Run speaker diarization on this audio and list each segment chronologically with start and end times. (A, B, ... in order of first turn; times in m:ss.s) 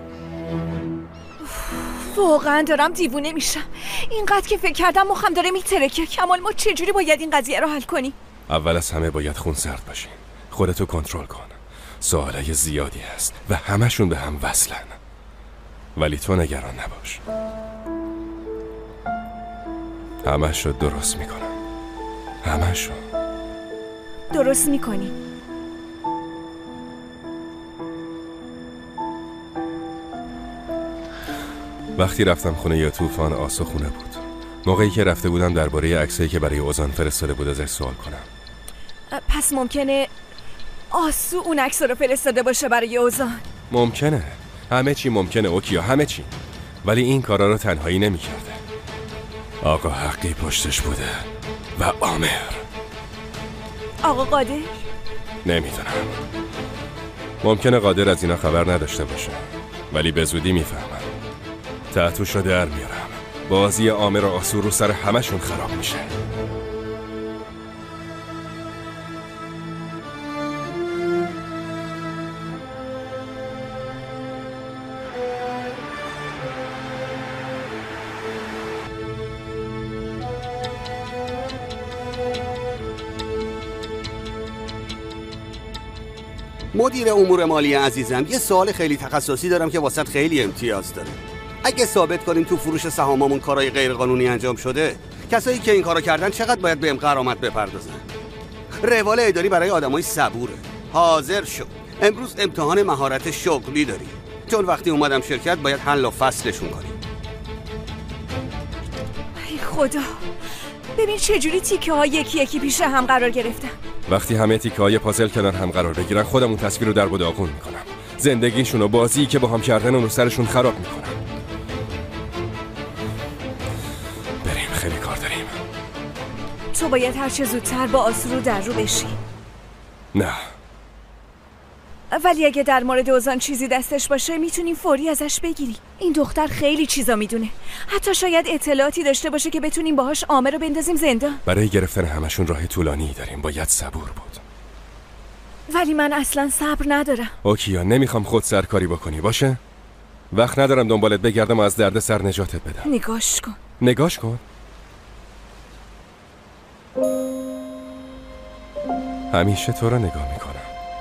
0:01.4-0:08.1 A
0:08.5-0:15.0 B
0:16.0-0:17.2 B
0:20.2-0:21.5 B
0:22.4-0:23.0 B
0:24.3-0:25.1 A
0:32.0-0:38.2 B
0:39.1-0:40.1 A
0:40.9-0:43.4 A
0:43.7-0:46.3 B
0:46.8-0:48.6 B
0:49.6-0:52.6 B
0:54.0-0:54.7 A
0:55.4-0:56.1 B
0:57.4-0:59.4 B
0:59.9-1:01.1 B
1:01.9-1:06.0 B
1:26.7-1:38.0 C
1:38.8-1:47.0 C
1:49.4-1:50.2 A
1:51.0-1:53.7 A
1:54.1-2:01.2 B
2:04.4-2:05.5 B
2:06.7-2:09.2 A
2:10.1-2:10.4 B
2:12.1-2:21.4 A
2:21.4-2:24.4 B
2:25.7-2:27.3 A
2:27.4-2:29.6 B
2:30.3-2:32.9 B
2:32.8-2:33.6 A
2:33.8-2:34.4 B
2:39.3-2:40.7 B